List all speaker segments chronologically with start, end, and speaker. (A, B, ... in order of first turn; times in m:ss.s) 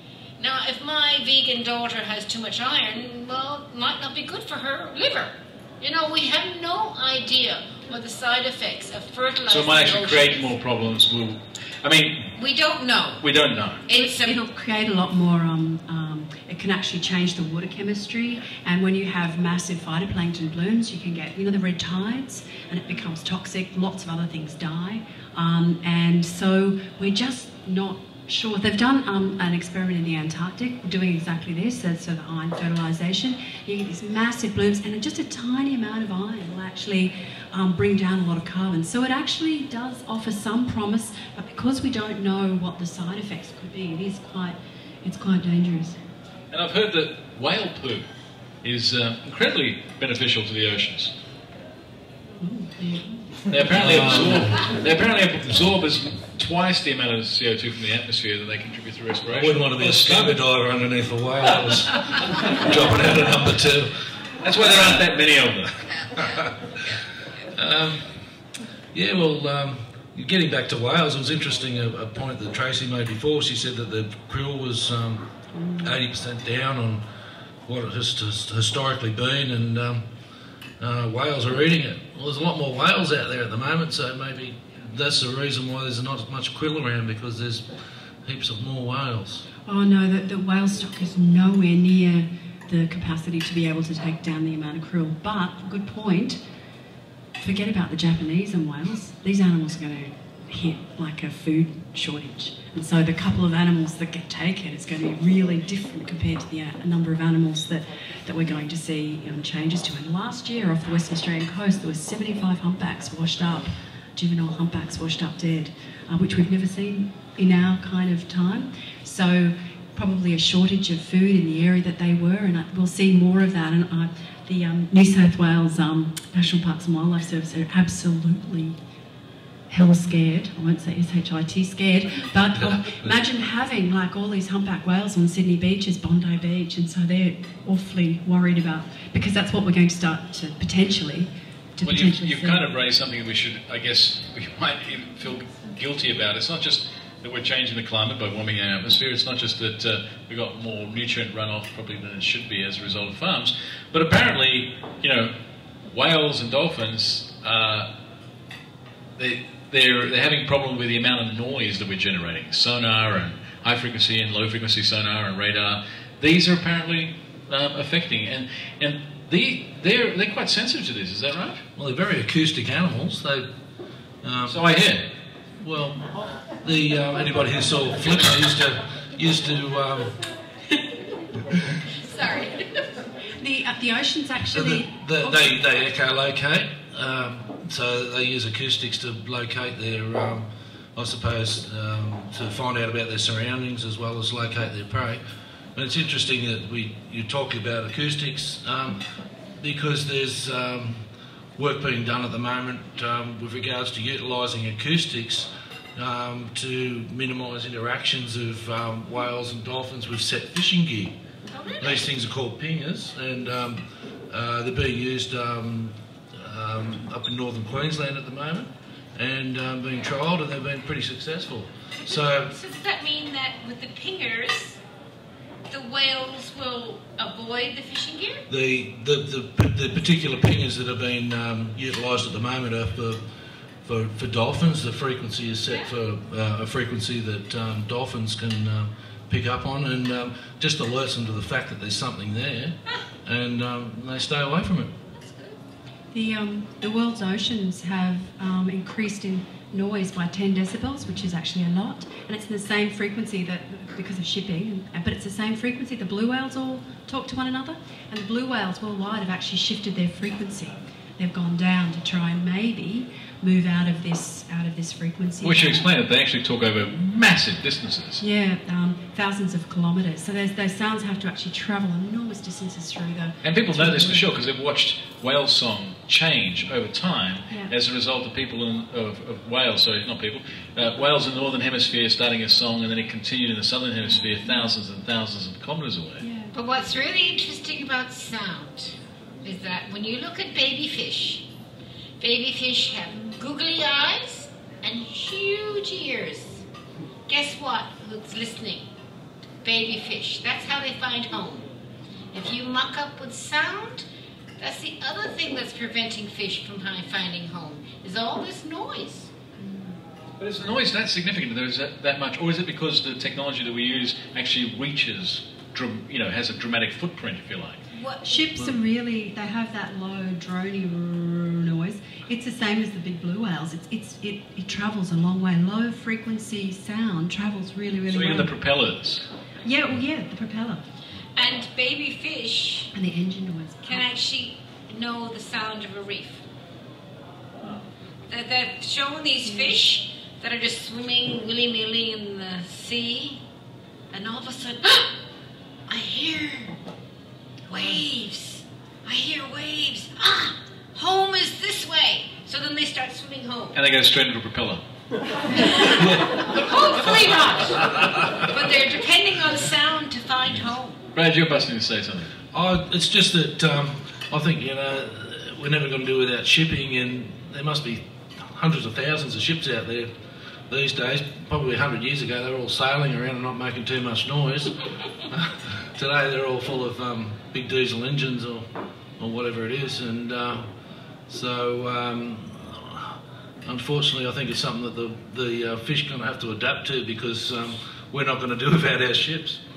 0:00.4-0:10.5 A
0:09.5-0:12.3 B
0:12.4-0:13.2 A
0:13.2-0:13.8 B
0:13.8-0:14.4 A
0:13.9-0:46.0 C
0:46.5-0:48.0 B
0:48.6-0:51.1 B
0:52.4-0:53.2 C
0:53.5-1:00.4 B
0:53.7-0:54.6 D
0:59.3-1:03.9 D
1:04.4-1:05.7 B
1:04.6-1:05.0 D
1:06.1-1:06.5 D
1:07.5-1:08.1 D
1:08.9-1:15.2 D
1:15.6-1:15.9 C
1:15.8-1:17.0 D
1:17.6-1:20.0 D
1:20.8-1:27.6 D
1:28.2-1:29.4 D
1:29.6-1:36.4 C
1:37.4-2:08.7 C
2:09.7-2:22.7 C
2:21.8-2:35.3 B
2:35.9-2:37.9 B
2:39.2-2:51.6 B
2:51.8-2:53.5 D
2:54.2-2:54.6 D
2:54.5-2:55.0 B
2:55.6-2:56.1 D
2:56.6-3:00.2 D
3:02.0-3:02.8 A
3:03.4-3:05.5 C
3:04.5-3:15.2 D
3:15.7-3:19.0 D
3:19.6-3:21.0 D
3:21.6-3:31.1 D
3:31.5-3:32.0 A
3:31.8-3:42.5 D
3:42.1-3:44.8 A
3:45.7-3:48.4 A
3:48.5-3:53.2 D
3:53.8-4:04.9 D
4:05.2-4:05.6 A
4:06.1-4:25.9 C
4:25.4-4:28.2 B
4:28.2-4:34.2 C
4:33.4-4:46.2 B
4:46.2-4:46.5 C
4:46.5-4:51.4 A
4:52.2-4:56.6 A
4:57.3-4:58.9 A
4:59.6-5:01.7 A
5:02.3-5:04.0 A
5:04.6-5:09.3 A
5:09.6-5:09.9 C
5:10.4-5:17.8 B
5:17.9-5:18.3 A
5:18.2-5:28.5 C
5:28.1-5:29.2 B
5:29.6-5:30.8 C
5:31.4-5:32.9 A
5:32.9-5:34.0 C
5:33.8-5:36.4 A
5:38.3-5:43.4 A
5:44.1-5:45.1 A
5:45.9-5:46.8 A
5:47.7-5:53.8 A
5:53.7-5:54.8 B
5:55.6-6:01.0 A
6:01.1-6:02.3 B
6:02.5-6:10.1 D
6:10.7-6:14.7 D
6:15.3-6:18.6 D
6:19.2-6:20.6 D
6:21.3-6:29.6 D